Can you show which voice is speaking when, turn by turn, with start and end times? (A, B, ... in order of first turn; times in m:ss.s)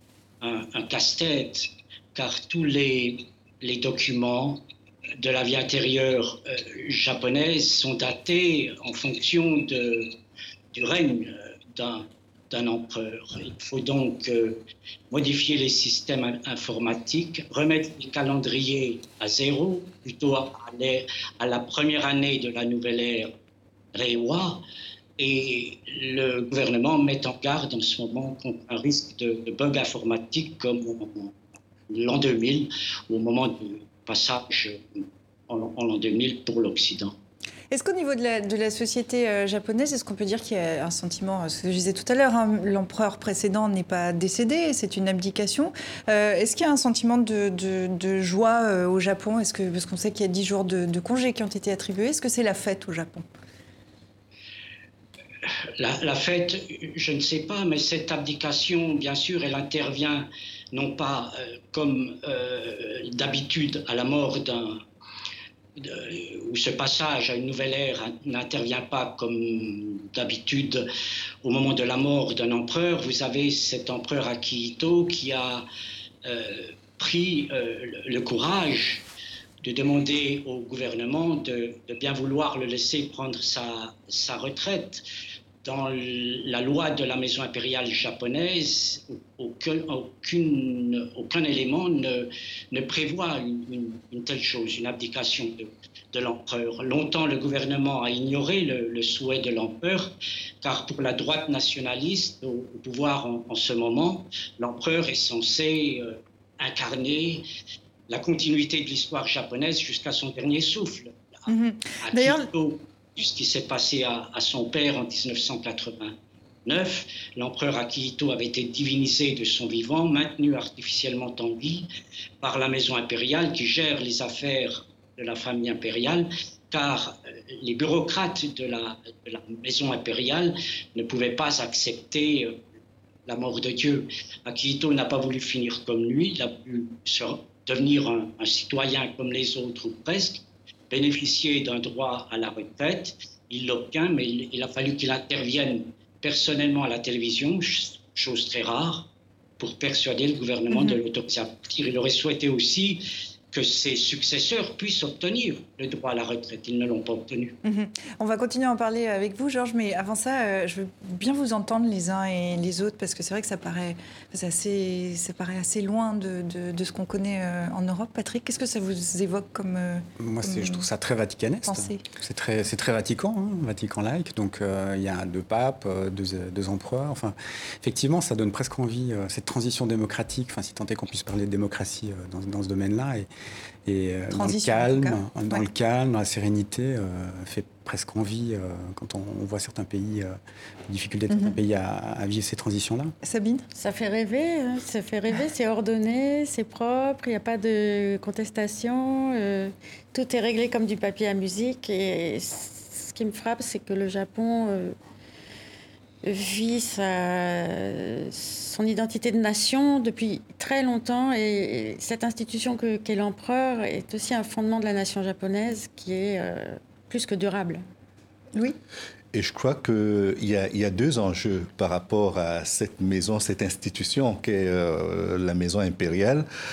0:00.4-0:04.6 A
0:05.2-0:10.1 A
0:10.7-0:14.6 A
0:15.1-0:23.3 A
0:23.9-0:24.6 A
0:25.2-0:31.3 A
0:31.9-0:37.1 A
0:37.7-0:53.2 B
0:55.8-1:04.8 A
1:05.8-1:10.9 A
1:11.4-1:15.6 A
1:16.2-1:19.0 A
1:19.6-1:25.0 A
1:25.6-1:47.4 A
1:48.1-1:51.1 A
1:51.5-1:52.5 B
1:52.0-1:56.1 A
1:56.6-2:01.9 A
2:02.4-2:12.6 A
2:13.3-2:29.1 A
2:29.6-2:37.5 A
2:30.7-2:31.0 B
2:37.6-2:50.9 B
2:50.2-3:03.3 C
2:51.6-2:52.0 B
3:03.9-3:10.4 C
3:04.3-3:05.6 B
3:10.9-3:13.1 C
3:11.3-3:11.6 B
3:13.2-3:13.6 B
3:13.7-3:24.9 D
3:26.2-3:37.8 D
3:39.3-3:46.4 E